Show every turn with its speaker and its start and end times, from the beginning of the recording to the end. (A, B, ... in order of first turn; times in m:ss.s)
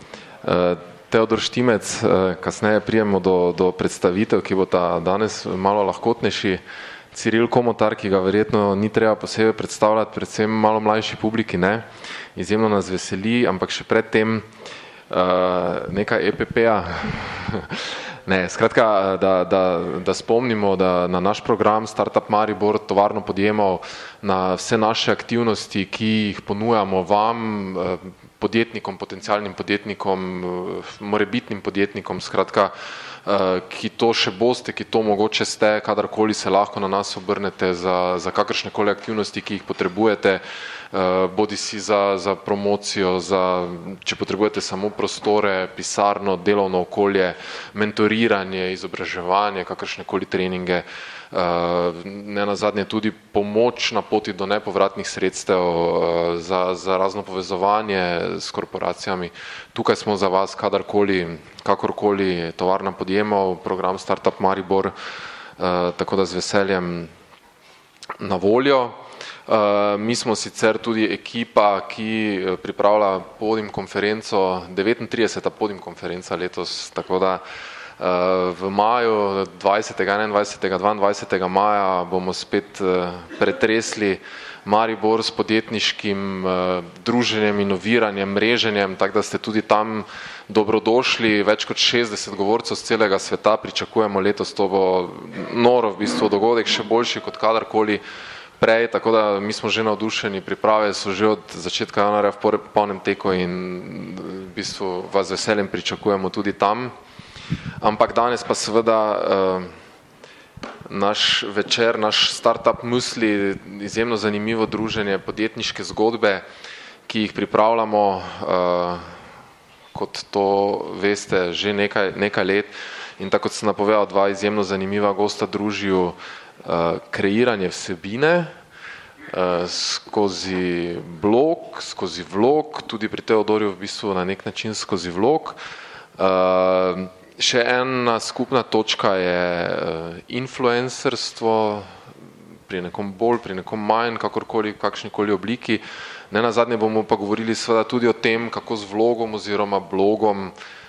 0:00.4-0:06.6 A
0:07.1-0:14.5 A
0:15.1-0:32.7 A
0:33.2-1:04.9 A
1:05.6-1:07.1 A
1:08.2-1:17.4 A
1:18.0-1:38.0 A
1:38.6-1:47.0 A
1:47.8-1:49.7 A
1:50.9-1:56.4 A
1:57.1-1:59.1 A
1:59.9-2:08.6 A
2:09.3-2:15.6 A
2:16.2-2:22.0 A
2:22.7-2:30.5 A